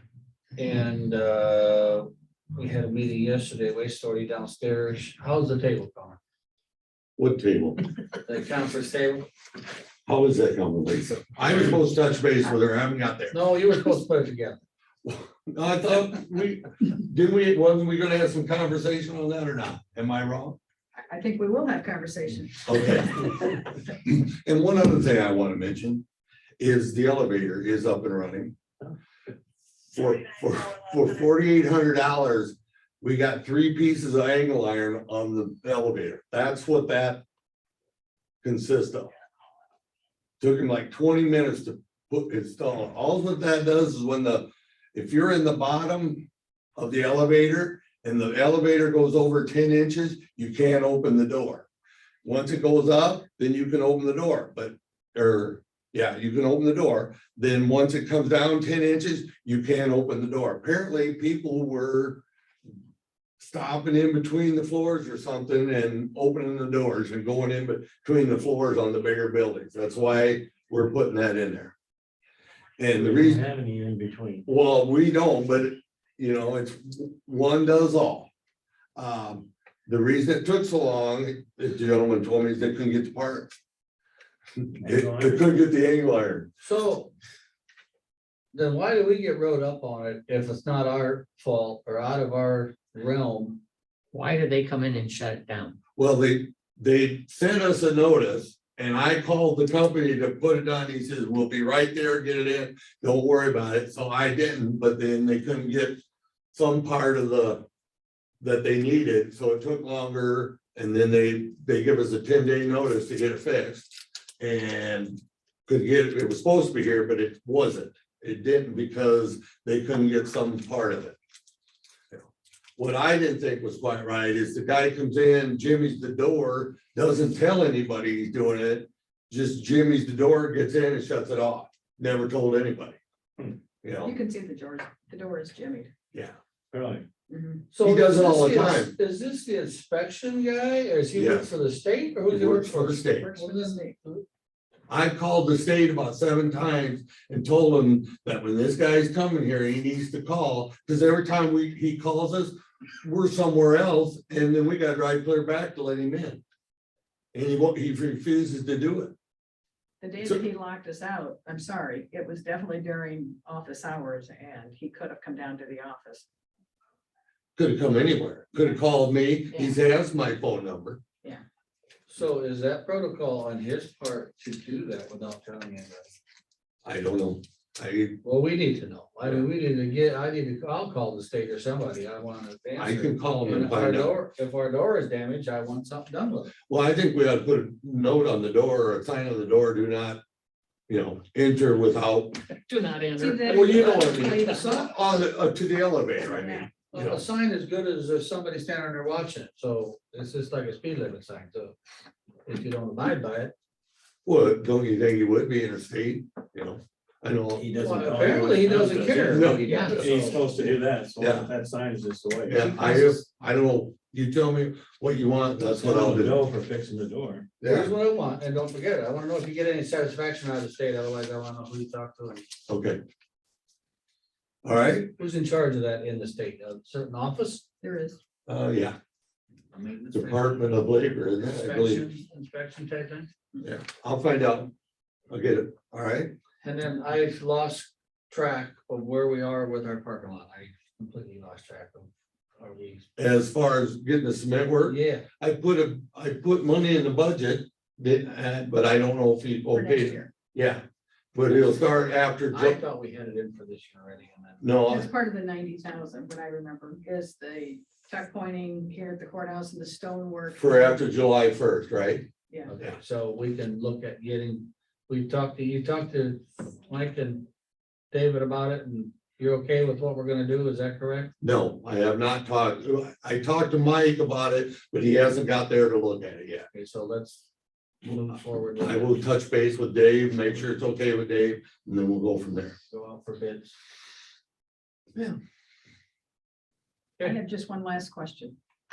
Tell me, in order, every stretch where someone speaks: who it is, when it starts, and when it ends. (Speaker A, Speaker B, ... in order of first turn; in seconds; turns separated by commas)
Speaker A: 0.6-6.2, Speaker B: 7.2-7.8, Speaker A: 8.2-9.2, Speaker B: 10.1-13.3, Speaker A: 13.3-14.6, Speaker B: 15.0-20.6, Speaker C: 21.0-23.2, Speaker B: 22.6-26.0, Speaker B: 26.6-28.5, Speaker B: 29.9-37.2, Speaker B: 38.4-39.1, Speaker B: 40.4-51.7, Speaker B: 52.2-62.2, Speaker B: 63.4-71.7, Speaker B: 72.8-73.4, Speaker D: 72.9-74.5, Speaker B: 74.5-78.3, Speaker B: 79.0-83.5, Speaker B: 84.6-86.5, Speaker D: 84.8-85.5, Speaker A: 86.6-87.1, Speaker A: 88.5-93.6, Speaker E: 94.1-95.8, Speaker B: 96.0-106.0, Speaker B: 106.5-107.6, Speaker B: 108.4-121.2, Speaker B: 122.8-133.0, Speaker B: 133.8-134.1, Speaker C: 134.0-135.9, Speaker D: 136.7-137.1, Speaker C: 137.3-137.6, Speaker A: 137.7-144.2, Speaker B: 137.8-138.9, Speaker B: 141.1-141.5, Speaker B: 142.3-143.3, Speaker C: 143.2-143.9, Speaker B: 144.9-156.4, Speaker B: 157.3-159.1, Speaker C: 160.0-166.3, Speaker B: 167.6-171.0, Speaker C: 169.5-169.8, Speaker A: 172.1-176.1, Speaker B: 176.8-178.2, Speaker A: 178.2-186.5, Speaker B: 182.8-184.1, Speaker B: 186.7-190.2, Speaker B: 190.9-192.4, Speaker E: 192.7-193.4, Speaker C: 193.2-194.9, Speaker B: 193.4-197.2, Speaker C: 196.2-196.7, Speaker A: 196.9-201.7, Speaker A: 202.4-203.5, Speaker B: 204.2-207.7, Speaker D: 207.5-212.8, Speaker A: 207.8-210.6, Speaker B: 208.7-210.1, Speaker B: 211.2-211.5, Speaker B: 212.4-216.4, Speaker D: 215.6-217.5, Speaker B: 217.6-217.9, Speaker A: 217.6-222.4, Speaker B: 222.7-223.0, Speaker B: 224.6-225.1, Speaker A: 225.1-227.6, Speaker C: 227.8-228.2, Speaker B: 228.5-229.0, Speaker A: 229.7-233.3, Speaker B: 230.1-232.0, Speaker B: 233.6-234.7, Speaker B: 235.3-236.3, Speaker A: 236.6-243.1, Speaker B: 243.2-250.8, Speaker A: 244.8-245.2, Speaker C: 249.7-250.3, Speaker B: 251.3-252.8, Speaker A: 252.5-254.7, Speaker B: 254.6-255.1, Speaker C: 254.8-261.0, Speaker B: 260.6-262.2, Speaker A: 262.6-267.4, Speaker A: 268.1-271.3, Speaker B: 271.4-276.7, Speaker A: 276.7-277.5, Speaker A: 278.0-279.2, Speaker B: 278.8-282.7, Speaker A: 282.9-283.8, Speaker C: 287.2-288.6